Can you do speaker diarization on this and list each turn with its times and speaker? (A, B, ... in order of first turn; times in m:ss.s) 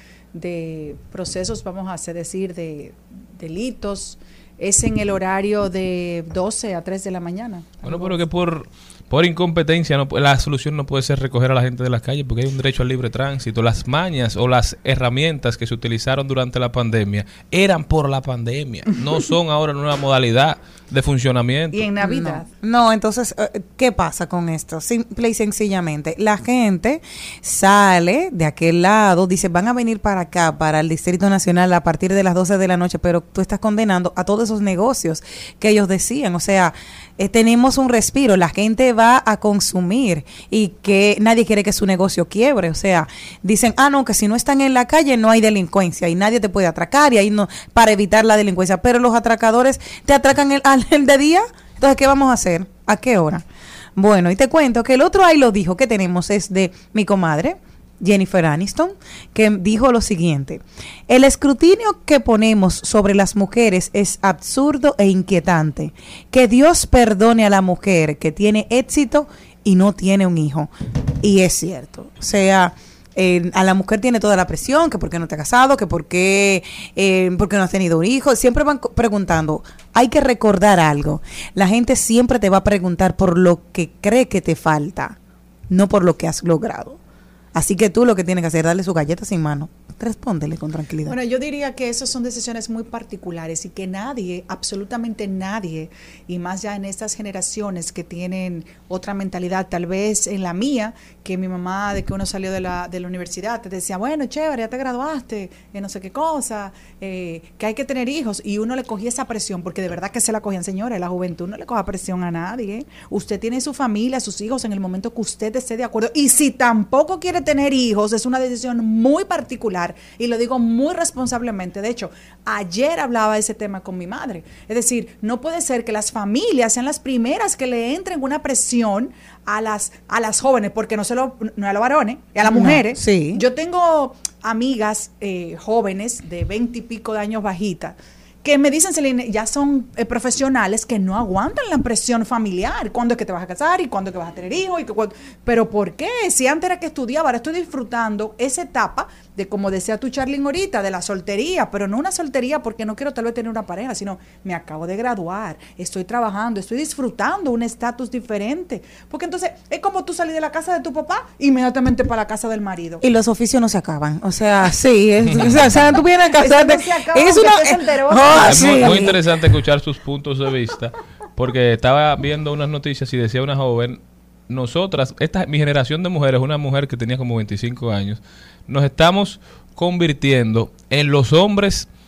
0:00.3-0:08.1 A
0:07.8-0:21.9 B
0:21.7-0:22.5 A
0:22.0-0:53.4 C
0:54.0-1:25.2 C
1:25.7-1:27.0 C
1:27.5-1:31.2 C
1:31.0-2:43.0 A
2:12.4-2:13.4 C
2:43.0-2:49.2 C
2:45.3-2:45.7 B
2:46.4-2:49.1 A
2:48.4-3:01.9 B